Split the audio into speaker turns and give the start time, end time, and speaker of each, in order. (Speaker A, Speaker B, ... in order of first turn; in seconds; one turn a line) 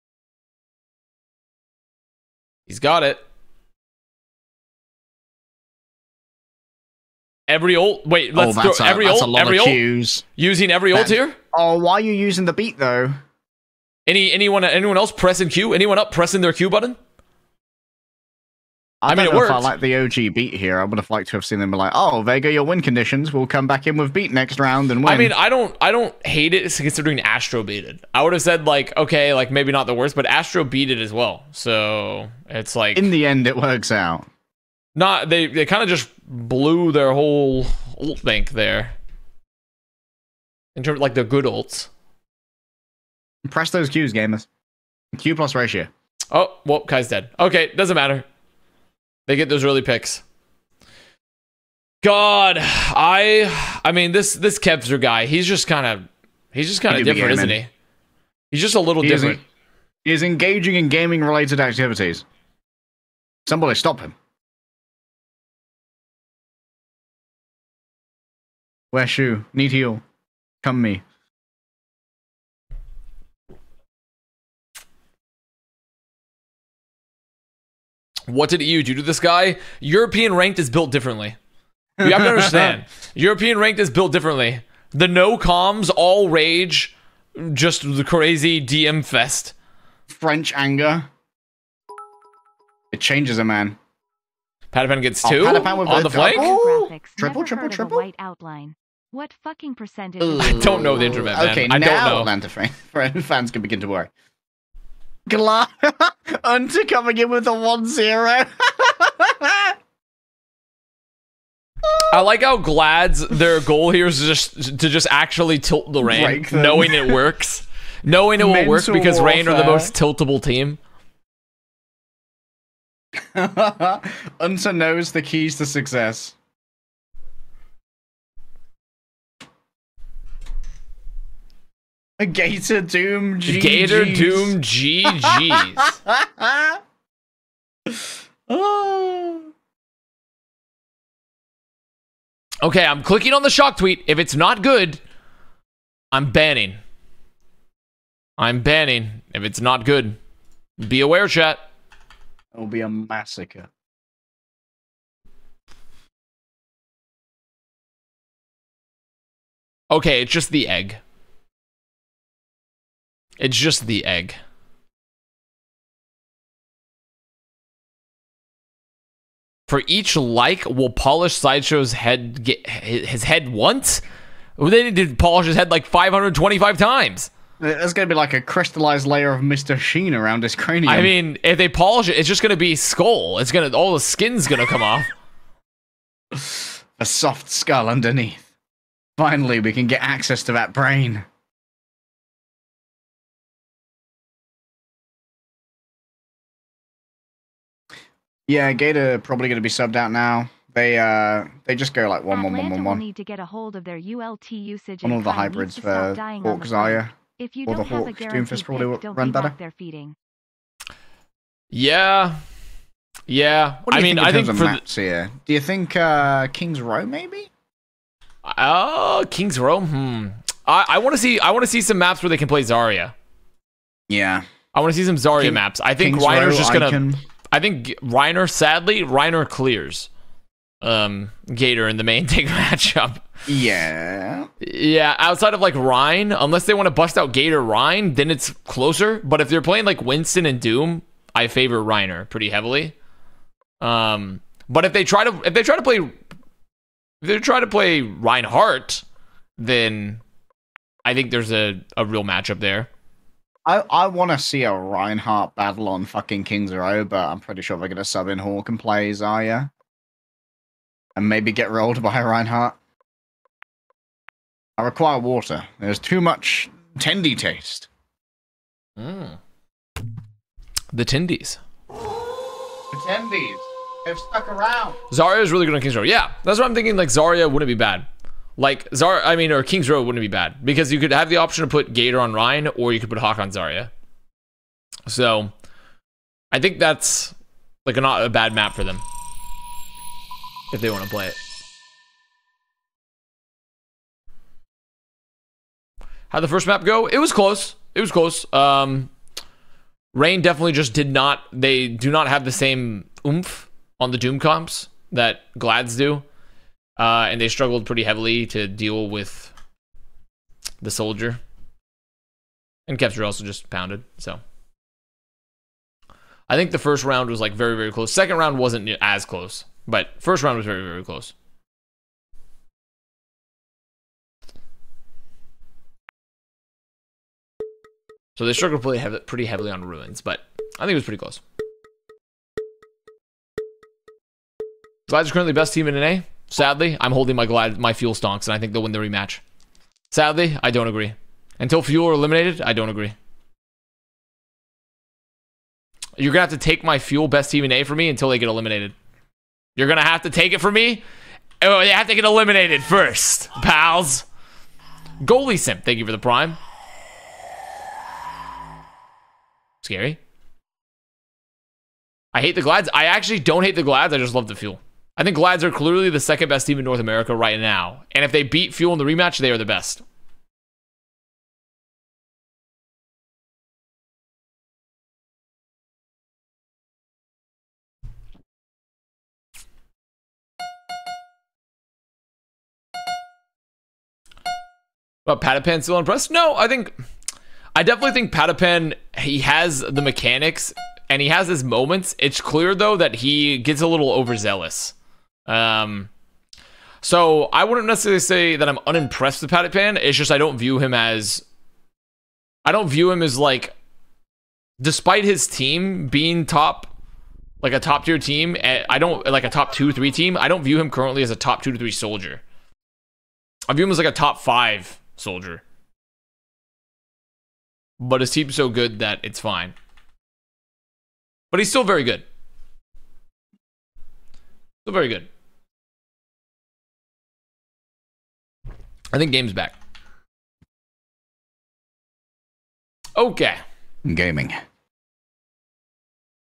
Speaker A: 2.7-3.2
Speaker A: 7.5-9.8
Speaker B: 8.3-10.2
Speaker A: 10.4-11.4
Speaker B: 10.9-13.2
Speaker A: 14.1-17.0
Speaker B: 19.0-25.3
Speaker A: 19.1-19.7
Speaker A: 25.0-33.1
Speaker B: 32.9-34.3
Speaker A: 34.9-39.0
Speaker A: 40.7-41.9
Speaker B: 43.5-44.5
Speaker B: 45.1-45.9
Speaker A: 46.3-48.2
Speaker A: 49.3-50.2
Speaker A: 52.0-57.7
Speaker B: 56.9-57.6
Speaker A: 58.5-59.4
Speaker B: 59.0-59.4
Speaker B: 60.0-62.2
Speaker B: 63.5-64.1
Speaker B: 68.9-70.0
Speaker B: 70.6-71.0
Speaker A: 78.3-81.4
Speaker B: 82.0-82.8
Speaker A: 82.0-89.5
Speaker B: 90.1-91.1
Speaker B: 92.9-93.8
Speaker A: 94.7-96.5
Speaker B: 95.2-98.0
Speaker C: 95.4-101.5
Speaker B: 100.2-104.1
Speaker A: 100.4-102.3
Speaker B: 105.3-109.8
Speaker A: 112.1-120.8
Speaker B: 116.0-117.2
Speaker B: 118.4-119.9
Speaker B: 123.2-126.3
Speaker B: 132.2-136.8
Speaker A: 133.5-135.9
Speaker B: 137.9-139.5
Speaker A: 142.6-145.0
Speaker A: 146.1-146.8
Speaker A: 148.4-150.2
Speaker A: 150.8-151.6
Speaker B: 152.5-153.7
Speaker A: 159.9-161.0
Speaker A: 163.4-164.4
Speaker A: 169.7-174.0
Speaker A: 174.6-177.3
Speaker B: 177.6-181.1
Speaker A: 180.8-185.1
Speaker B: 186.3-188.5
Speaker B: 189.2-191.2
Speaker B: 198.5-203.0
Speaker C: 202.3-210.2
Speaker B: 205.0-207.1
Speaker B: 207.6-209.5
Speaker A: 211.7-212.4
Speaker A: 213.3-214.8
Speaker B: 213.9-217.5
Speaker A: 218.4-223.1
Speaker B: 224.1-224.4
Speaker A: 224.7-230.1
Speaker B: 225.4-227.2
Speaker A: 230.8-233.2
Speaker B: 233.5-234.5
Speaker A: 234.6-242.9
Speaker A: 243.8-246.2
Speaker A: 247.2-249.0
Speaker A: 249.6-250.2
Speaker A: 251.0-252.9
Speaker B: 253.7-259.7
Speaker B: 261.1-262.8
Speaker B: 264.8-267.9
Speaker A: 269.0-269.4
Speaker A: 270.9-271.6
Speaker B: 272.9-275.0
Speaker A: 275.1-283.9
Speaker A: 285.1-285.5
Speaker A: 286.5-289.0
Speaker A: 290.7-291.4
Speaker A: 296.3-299.1
Speaker A: 300.1-306.2
Speaker A: 307.0-309.5
Speaker A: 310.8-311.4
Speaker A: 312.9-314.4
Speaker A: 316.5-321.3
Speaker A: 328.4-331.4
Speaker A: 335.1-339.4
Speaker A: 340.1-343.1
Speaker A: 346.2-348.9
Speaker A: 349.8-351.0
Speaker A: 351.6-354.2
Speaker A: 355.2-356.6
Speaker A: 359.8-360.2
Speaker A: 362.3-370.0
Speaker A: 385.2-386.9
Speaker A: 387.7-394.9
Speaker A: 395.5-396.1
Speaker A: 397.0-401.4
Speaker A: 402.6-403.7
Speaker A: 404.8-406.9
Speaker A: 407.6-412.4
Speaker A: 413.7-415.6
Speaker A: 418.0-419.7
Speaker A: 421.5-422.2
Speaker A: 424.8-425.3
Speaker A: 429.1-429.7
Speaker A: 433.2-433.6
Speaker B: 434.0-434.6